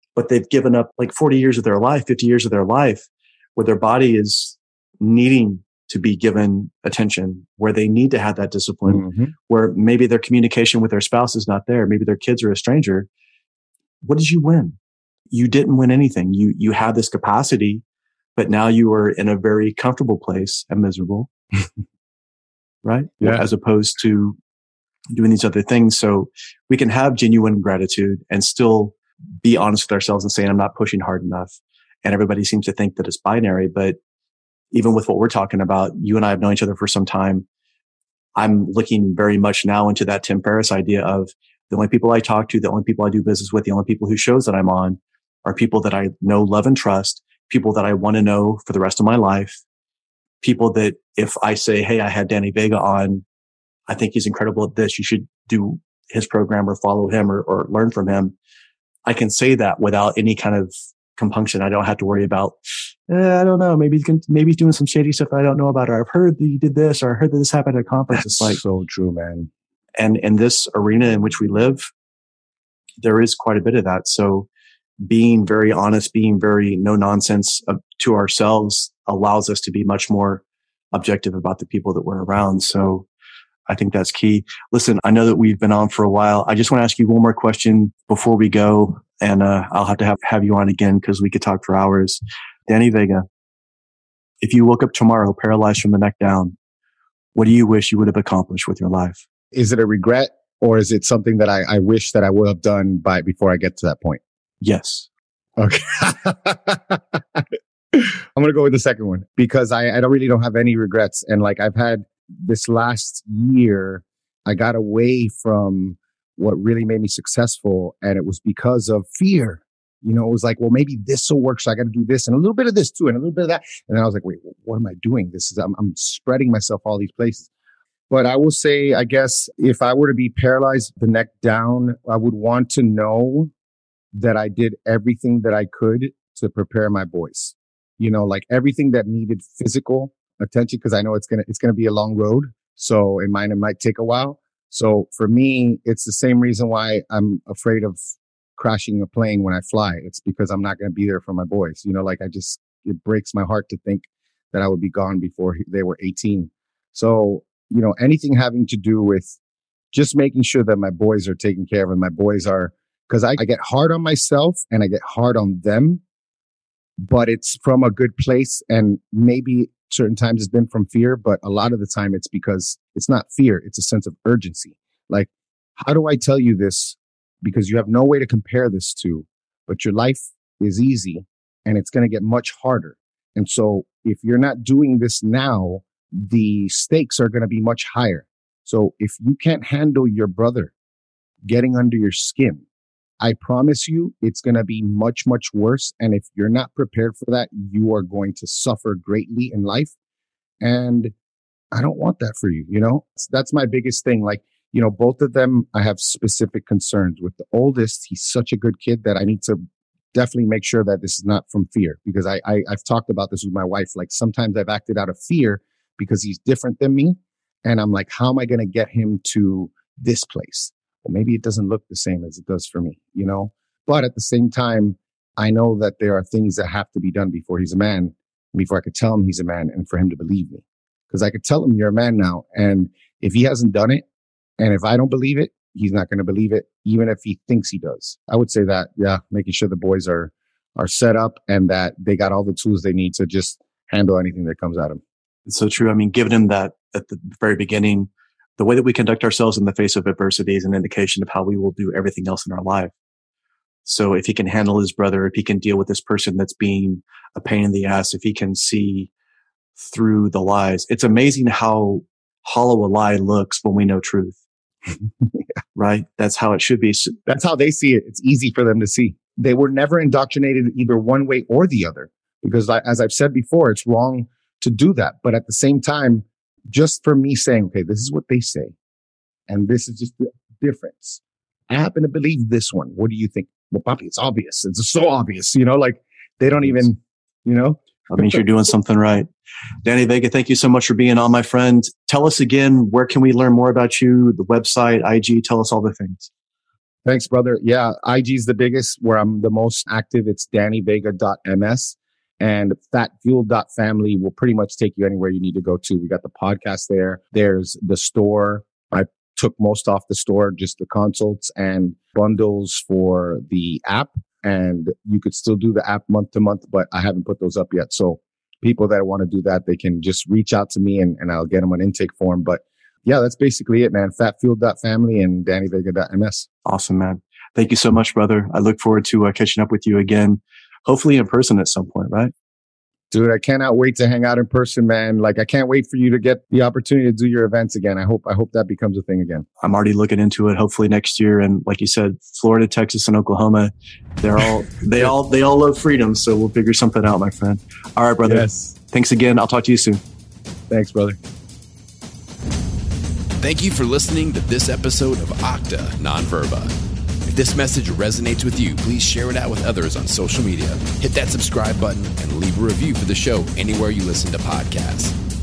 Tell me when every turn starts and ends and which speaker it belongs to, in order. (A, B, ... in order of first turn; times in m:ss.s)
0:00.2-0:13.1 A
0:08.9-0:09.3 B
0:14.0-0:14.8 A
0:15.3-0:17.8 A
0:18.4-0:21.3 A
0:22.8-0:24.4 A
0:23.2-0:23.5 B
0:25.1-0:34.0 A
0:34.7-0:37.4 A
0:38.4-0:49.6 A
0:50.4-0:53.2 A
0:53.9-0:58.4 A
0:59.1-1:02.6 A
1:03.1-1:08.6 A
1:08.2-1:09.5 B
1:10.0-1:11.9 A
1:13.0-1:14.5 A
1:15.0-1:23.1 A
1:23.7-1:33.2 A
1:34.4-1:36.5 A
1:37.4-1:39.2 A
1:39.5-1:44.2 B
1:44.6-1:45.1 A
1:45.6-2:07.5 B
2:08.1-2:13.5 B
2:14.1-2:28.0 B
2:28.6-2:39.4 B
2:39.9-2:46.0 B
2:47.0-3:10.7 B
3:11.4-3:12.6 B
3:13.2-3:19.9 B
3:20.6-3:21.1 B
3:21.7-3:29.6 B
3:30.1-3:54.0 B
3:54.6-4:05.0 B
4:05.5-4:12.9 A
4:13.8-4:19.1 A
4:19.8-4:24.4 A
4:25.8-4:27.2 A
4:27.3-4:38.7 B
4:39.5-4:47.8 B
4:48.1-4:49.3 A
4:49.8-4:56.3 A
4:57.0-5:26.5 B
5:26.6-5:32.3 A
5:33.1-5:39.5 B
5:39.6-5:50.0 A
5:48.2-5:48.8 B
5:50.7-5:51.2 B
5:53.4-5:56.7 C
5:57.3-6:05.2 C